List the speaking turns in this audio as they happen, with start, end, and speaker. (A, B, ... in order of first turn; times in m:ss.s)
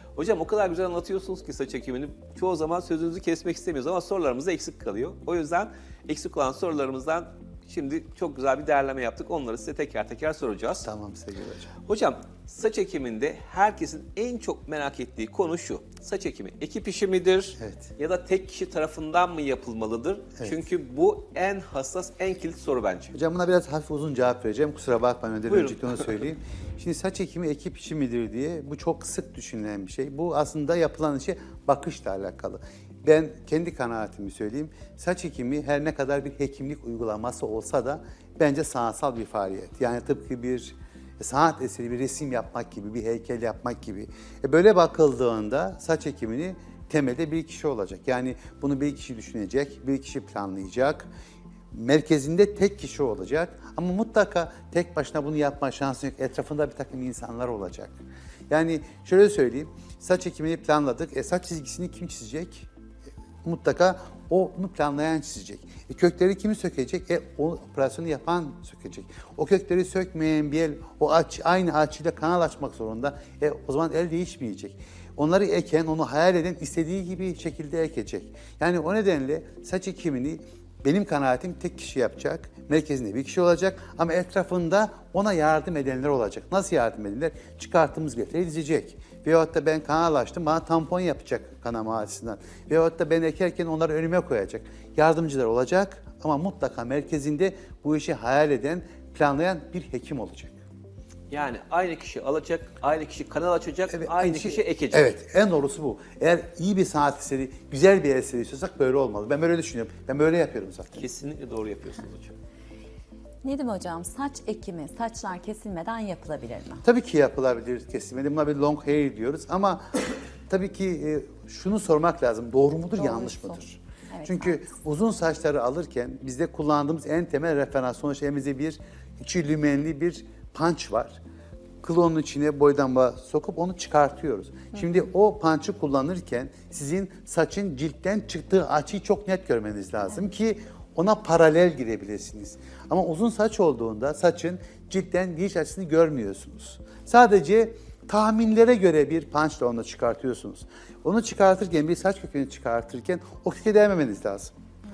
0:00.2-0:10.9 A
0:10.8-0:11.7 B
0:11.9-0:23.2 A
0:17.6-0:17.9 B
0:23.1-0:51.1 B
0:25.5-0:26.1 A
0:51.7-0:58.0 B
0:58.5-1:02.7 B
1:03.4-1:40.6 B
1:41.3-1:45.2 A
1:43.9-1:51.0 B
1:50.9-1:52.4 A
1:53.4-1:56.8 C
1:56.8-2:11.2 B
2:03.0-2:04.6 C
2:11.8-2:34.5 B